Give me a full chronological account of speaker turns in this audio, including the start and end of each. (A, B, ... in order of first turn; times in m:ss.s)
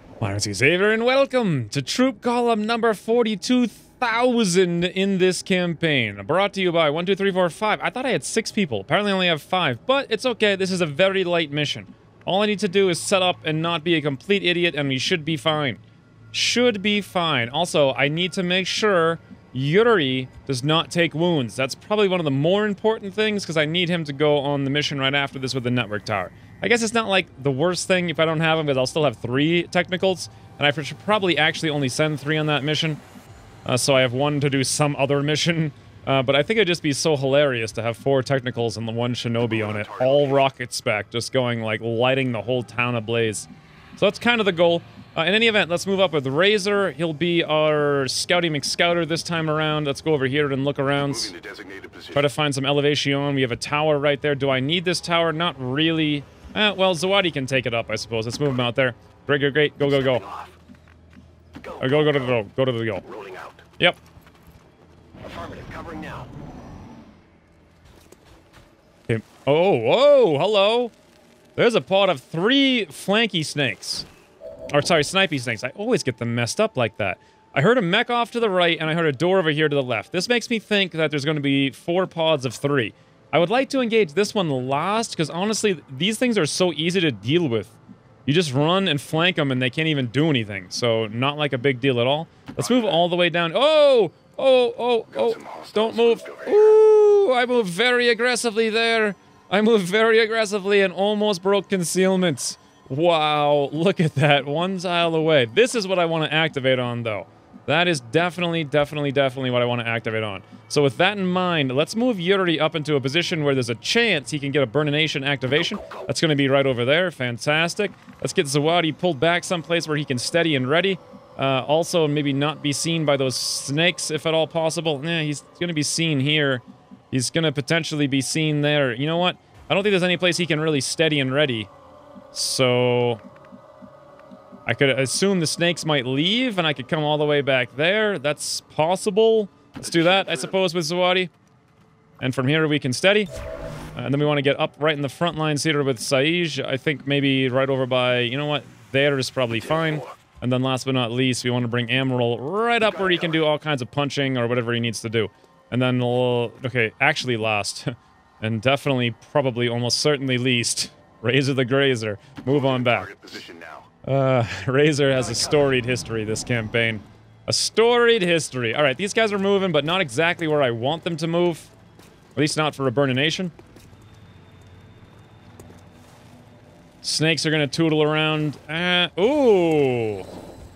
0:00.2-0:15.8 A
0:16.3-0:33.0 A
0:33.6-0:51.3 A
0:51.3-0:52.2 B
0:52.1-1:00.2 A
0:59.8-1:00.5 B
1:01.6-1:02.3 B
1:01.8-1:03.0 A
1:03.0-1:03.6 B
1:05.2-1:06.3 B
1:09.1-1:10.9 A
1:11.6-1:14.0 A
1:14.7-2:11.7 A
1:35.3-1:36.5 B
2:12.3-2:13.2 A
2:14.6-2:21.3 A
2:22.2-2:23.3 A
2:23.9-2:43.2 A
2:43.0-2:43.9 B
2:44.0-2:51.7 A
2:52.3-2:53.5 A
2:57.0-3:00.3 A